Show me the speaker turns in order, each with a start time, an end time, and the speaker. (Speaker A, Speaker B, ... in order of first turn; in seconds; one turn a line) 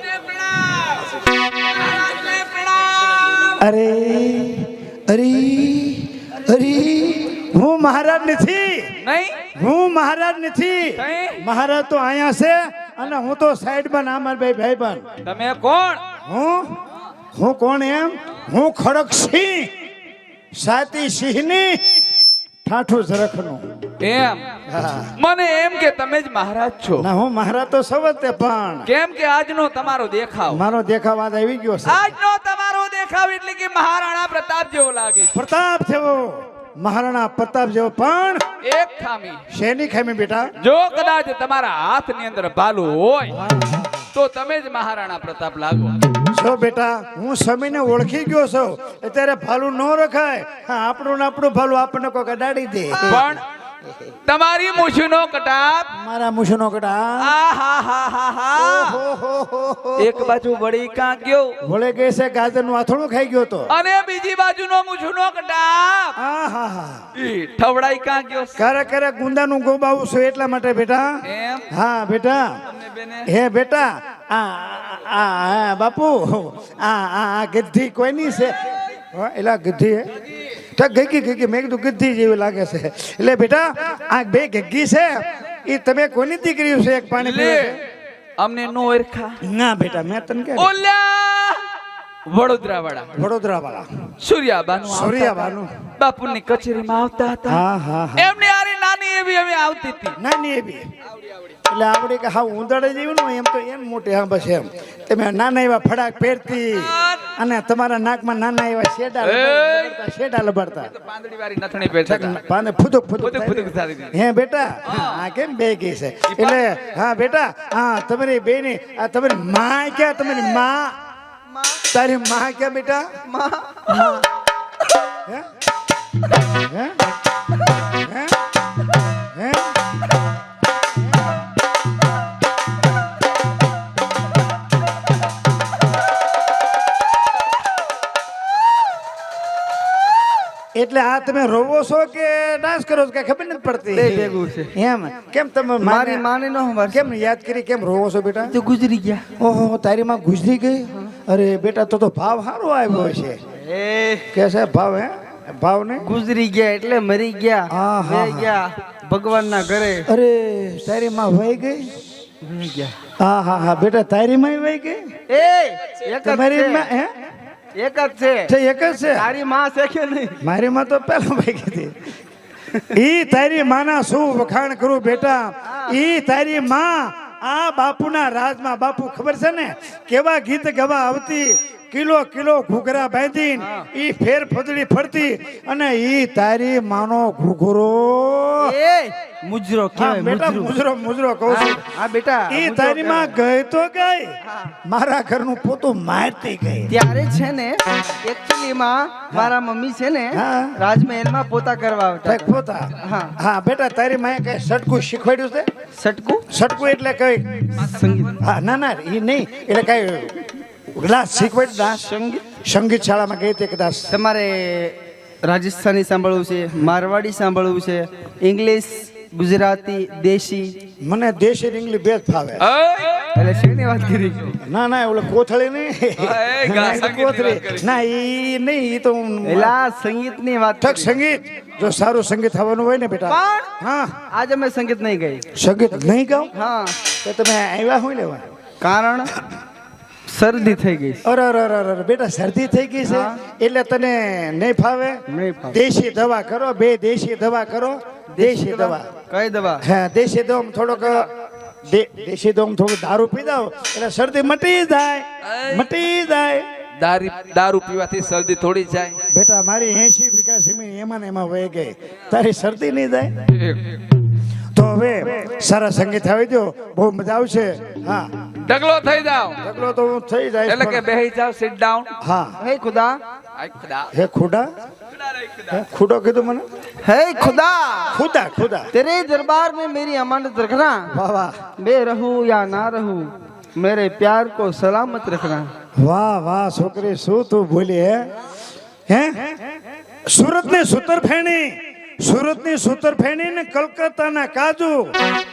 Speaker A: 0.3-1.0
Speaker A: 1.9-3.5
Speaker B: 3.6-8.9
Speaker A: 9.0-9.5
Speaker B: 9.5-15.1
Speaker A: 10.9-11.4
Speaker A: 15.2-16.0
Speaker B: 16.2-16.8
Speaker B: 17.4-19.7
Speaker B: 20.6-21.8
Speaker B: 22.6-23.6
Speaker A: 24.0-24.5
Speaker B: 24.7-25.1
Speaker A: 25.2-27.1
Speaker B: 27.0-28.9
Speaker A: 28.9-30.6
Speaker B: 30.5-32.0
Speaker A: 31.8-35.4
Speaker B: 35.3-38.4
Speaker A: 38.6-39.4
Speaker B: 39.5-40.5
Speaker A: 40.6-43.4
Speaker B: 43.4-44.0
Speaker A: 44.1-46.1
Speaker B: 46.3-53.4
Speaker A: 53.0-53.4
Speaker A: 54.2-55.9
Speaker B: 55.9-57.4
Speaker A: 57.2-59.0
Speaker B: 58.5-60.4
Speaker A: 60.0-61.6
Speaker B: 61.6-63.7
Speaker A: 63.7-66.2
Speaker B: 66.2-67.1
Speaker A: 67.1-68.6
Speaker B: 68.6-72.6
Speaker A: 71.2-71.7
Speaker A: 72.7-73.3
Speaker B: 73.2-80.1
Speaker B: 80.8-85.1
Speaker B: 85.7-87.8
Speaker A: 87.2-87.8
Speaker A: 88.4-89.4
Speaker B: 89.4-90.7
Speaker A: 90.6-91.6
Speaker A: 92.3-93.1
Speaker B: 93.1-93.9
Speaker A: 94.2-97.6
Speaker B: 94.8-95.7
Speaker B: 97.5-98.3
Speaker A: 98.2-100.2
Speaker B: 100.2-100.8
Speaker B: 101.7-110.9
Speaker A: 106.8-107.3
Speaker A: 109.2-110.0
Speaker A: 111.0-112.4
Speaker B: 112.0-120.9
Speaker A: 113.2-114.2
Speaker A: 114.8-115.2
Speaker A: 116.3-116.7
Speaker C: 121.5-121.8
Speaker B: 121.9-123.1
Speaker C: 123.2-124.1
Speaker B: 123.9-124.3
Speaker B: 126.6-127.0
Speaker B: 128.0-128.3
Speaker B: 129.3-129.7
Speaker B: 140.7-146.3
Speaker C: 143.9-144.7
Speaker C: 145.8-147.0
Speaker B: 146.9-148.5
Speaker C: 148.5-149.3
Speaker B: 149.4-153.4
Speaker C: 153.6-154.3
Speaker B: 154.3-156.1
Speaker C: 156.0-160.1
Speaker B: 157.7-158.6
Speaker B: 160.1-161.9
Speaker C: 162.4-162.9
Speaker B: 163.2-165.0
Speaker C: 165.3-166.9
Speaker B: 166.2-167.1
Speaker C: 167.8-168.5
Speaker B: 168.5-169.3
Speaker C: 169.0-170.4
Speaker B: 170.4-171.9
Speaker B: 172.8-188.7
Speaker C: 188.6-190.8
Speaker B: 189.9-191.9
Speaker C: 191.5-193.4
Speaker B: 192.5-196.9
Speaker C: 196.9-203.3
Speaker B: 200.3-200.7
Speaker B: 202.2-205.7
Speaker C: 206.0-206.5
Speaker B: 206.5-207.8
Speaker C: 207.7-208.4
Speaker B: 208.4-212.0
Speaker C: 211.9-212.5
Speaker B: 212.6-214.1
Speaker C: 214.1-220.8
Speaker B: 221.0-222.7
Speaker A: 222.6-223.3
Speaker C: 223.3-224.6
Speaker B: 224.6-229.8
Speaker A: 226.2-227.9
Speaker C: 229.4-231.1
Speaker B: 230.8-234.1
Speaker C: 233.2-233.7
Speaker C: 234.3-235.4
Speaker B: 235.6-236.5
Speaker C: 236.5-237.0
Speaker B: 237.2-238.5
Speaker C: 238.8-239.3
Speaker C: 240.3-241.2
Speaker B: 241.2-249.1
Speaker C: 243.0-243.4
Speaker C: 245.3-245.8
Speaker C: 248.3-249.8
Speaker B: 249.8-251.3
Speaker B: 251.8-256.7
Speaker A: 255.4-255.9
Speaker A: 257.0-259.2
Speaker B: 259.3-263.3
Speaker A: 263.5-264.0
Speaker B: 264.7-268.3
Speaker A: 268.6-269.6
Speaker B: 269.6-271.1
Speaker A: 270.6-272.1
Speaker B: 272.2-272.6
Speaker C: 272.6-273.2
Speaker A: 273.6-274.1
Speaker B: 274.1-274.7
Speaker B: 275.6-276.6
Speaker C: 277.0-278.2
Speaker B: 278.1-278.9
Speaker C: 278.9-281.1
Speaker B: 281.1-281.6
Speaker C: 281.8-285.7
Speaker B: 286.0-288.3
Speaker B: 289.1-289.8
Speaker B: 290.3-295.1